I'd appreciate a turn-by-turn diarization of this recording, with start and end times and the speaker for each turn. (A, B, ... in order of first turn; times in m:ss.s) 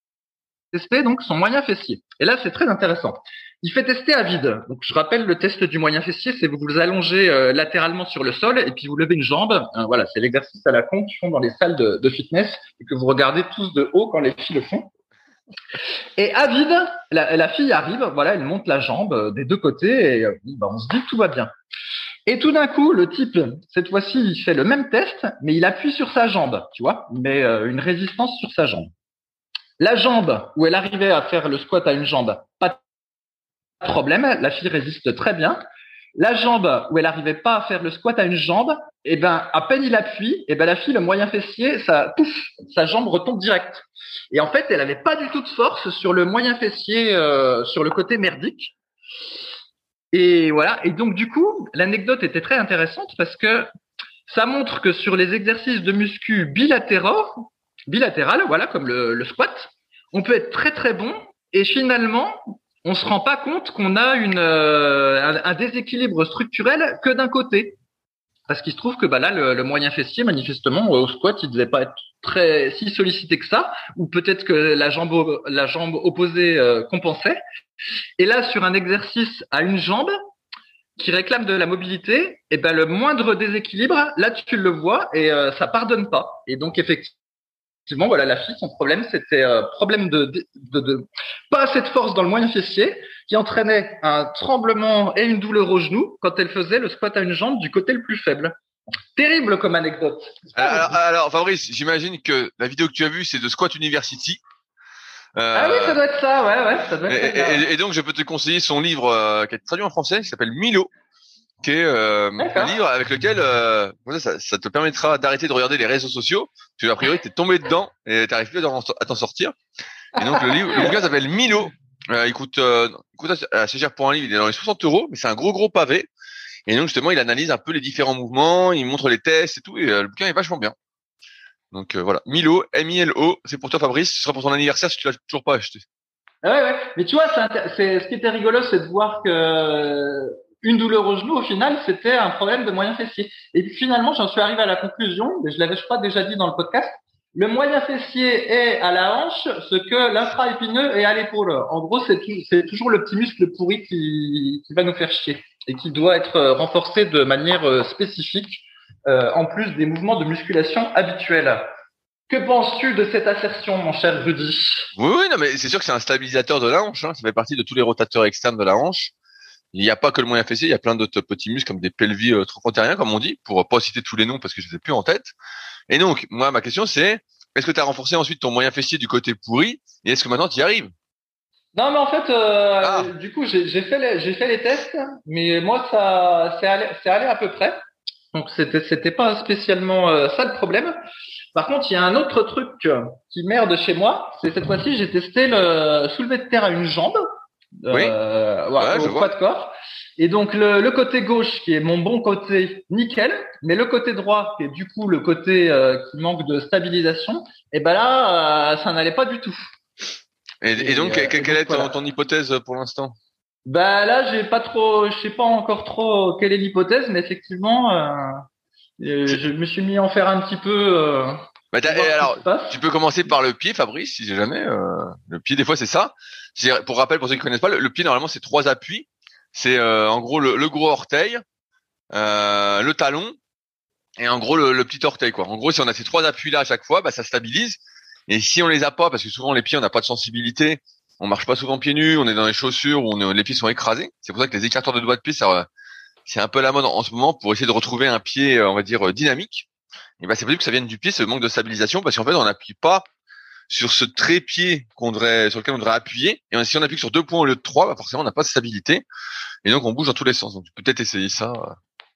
0:00.7-0:14.9 A
0:16.2-0:21.5 A
0:22.2-0:28.9 A
0:29.8-0:32.8 A
0:33.8-0:35.6 A
0:36.2-0:48.7 A
0:50.1-0:53.7 A
0:54.3-1:07.8 A
1:08.5-1:17.4 A
1:18.2-1:20.1 A
1:21.0-1:27.2 A
1:27.9-1:38.5 A
1:39.1-1:41.0 A
1:40.5-1:44.4 B
1:45.4-1:46.0 B
1:45.5-1:47.6 A
1:47.1-1:50.9 B
1:51.6-1:59.6 B
1:52.4-1:52.8 A
2:00.2-2:06.1 B
2:00.2-2:00.8 A
2:06.7-2:10.7 B
2:11.7-2:15.8 B
2:16.4-2:41.6 A
2:42.3-2:44.9 A
2:45.0-2:49.1 B
2:49.7-2:55.3 B
2:55.9-3:00.9 B
3:01.7-3:07.8 A
3:02.8-3:03.1 B
3:08.3-3:10.9 A
3:11.5-3:17.2 A
3:17.8-3:29.7 A
3:17.9-3:18.2 B
3:18.8-3:19.3 B
3:30.6-3:33.1 B
3:30.7-3:31.9 A
3:33.6-3:38.4 A
3:39.0-3:42.8 A
3:41.7-3:51.4 B
3:52.1-3:53.4 B
3:54.2-4:05.7 B
4:06.2-4:09.7 B
4:10.2-4:13.0 B
4:13.7-4:19.0 B
4:19.6-4:21.8 B